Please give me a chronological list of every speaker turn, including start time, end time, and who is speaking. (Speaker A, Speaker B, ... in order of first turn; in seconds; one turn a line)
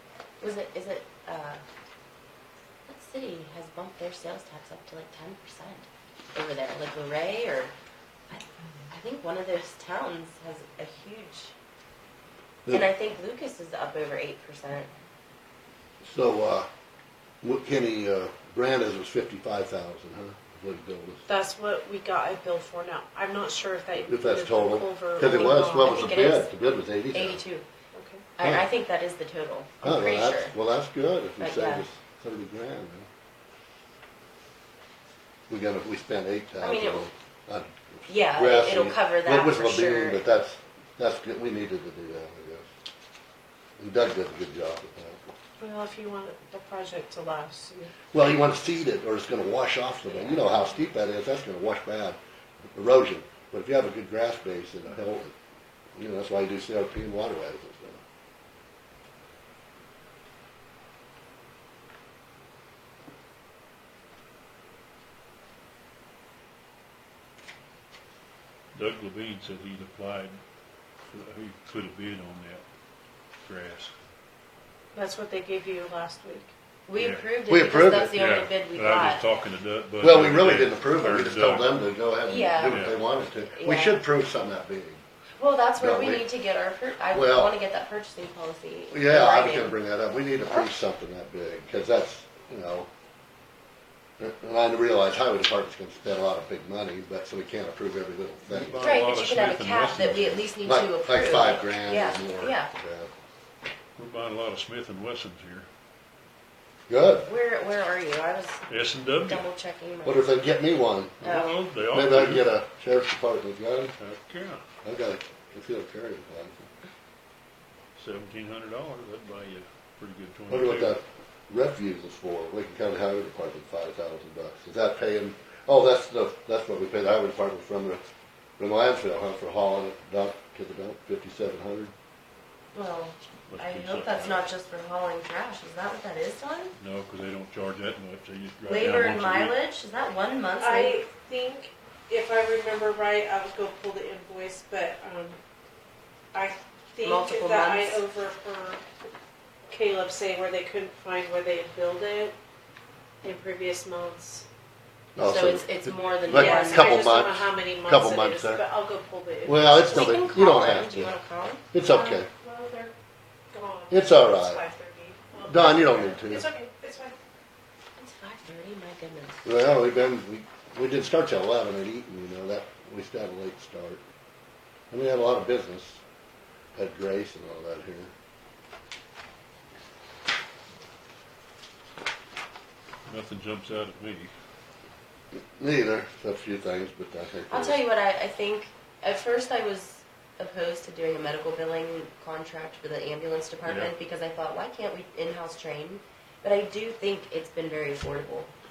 Speaker A: 0.4-1.6
Speaker A: 2.9-7.7
Speaker A: 8.3-11.5
Speaker A: 12.7-14.9
Speaker B: 16.0-16.7
Speaker B: 17.4-21.2
Speaker C: 21.3-26.4
Speaker B: 24.1-27.4
Speaker A: 25.2-26.5
Speaker A: 27.1-27.6
Speaker C: 27.9-28.2
Speaker A: 28.4-30.5
Speaker B: 29.8-33.1
Speaker A: 31.4-31.9
Speaker B: 35.5-42.7
Speaker A: 36.6-37.1
Speaker A: 38.1-40.3
Speaker B: 43.8-45.3
Speaker C: 45.6-48.0
Speaker B: 48.1-52.2
Speaker A: 50.1-50.4
Speaker B: 52.8-55.3
Speaker B: 56.0-58.0
Speaker D: 68.7-70.4
Speaker D: 71.1-72.6
Speaker D: 73.5-73.9
Speaker C: 74.9-76.5
Speaker A: 76.9-79.3
Speaker D: 77.0-77.3
Speaker B: 77.5-78.2
Speaker D: 78.0-81.8
Speaker B: 80.0-85.0
Speaker A: 82.2-83.0
Speaker D: 82.7-82.9
Speaker A: 83.5-84.0
Speaker A: 85.4-89.8
Speaker B: 85.8-86.3
Speaker B: 87.1-87.5
Speaker B: 88.9-92.9
Speaker B: 94.2-98.9
Speaker D: 98.5-100.5
Speaker A: 98.8-102.7
Speaker B: 100.7-103.1
Speaker D: 104.0-105.7
Speaker B: 106.9-107.3
Speaker A: 107.3-108.6
Speaker D: 108.7-109.5
Speaker A: 109.2-110.3
Speaker B: 110.0-111.3
Speaker D: 111.2-112.5
Speaker A: 111.2-111.5
Speaker B: 111.9-114.0
Speaker D: 114.0-114.6
Speaker B: 114.8-116.7
Speaker D: 118.0-121.0
Speaker B: 120.5-128.0
Speaker B: 128.6-131.9
Speaker A: 132.7-136.7
Speaker D: 133.5-134.5
Speaker D: 136.8-139.6
Speaker A: 138.7-141.0
Speaker C: 140.6-145.4
Speaker C: 146.3-148.8
Speaker A: 147.0-148.0
Speaker C: 149.7-152.3
Speaker C: 153.2-154.5
Speaker B: 155.2-158.6
Speaker A: 155.2-157.1
Speaker C: 156.3-160.2
Speaker B: 159.4-161.2
Speaker A: 159.9-161.6
Speaker B: 161.7-162.3
Speaker C: 161.8-162.9
Speaker C: 163.5-167.2
Speaker B: 163.9-164.6
Speaker B: 165.5-166.5
Speaker A: 168.0-169.4
Speaker B: 169.4-174.0
Speaker B: 174.9-176.0
Speaker B: 176.8-178.1
Speaker D: 183.1-184.3
Speaker B: 185.6-187.8
Speaker A: 187.5-198.5
Speaker D: 193.7-193.9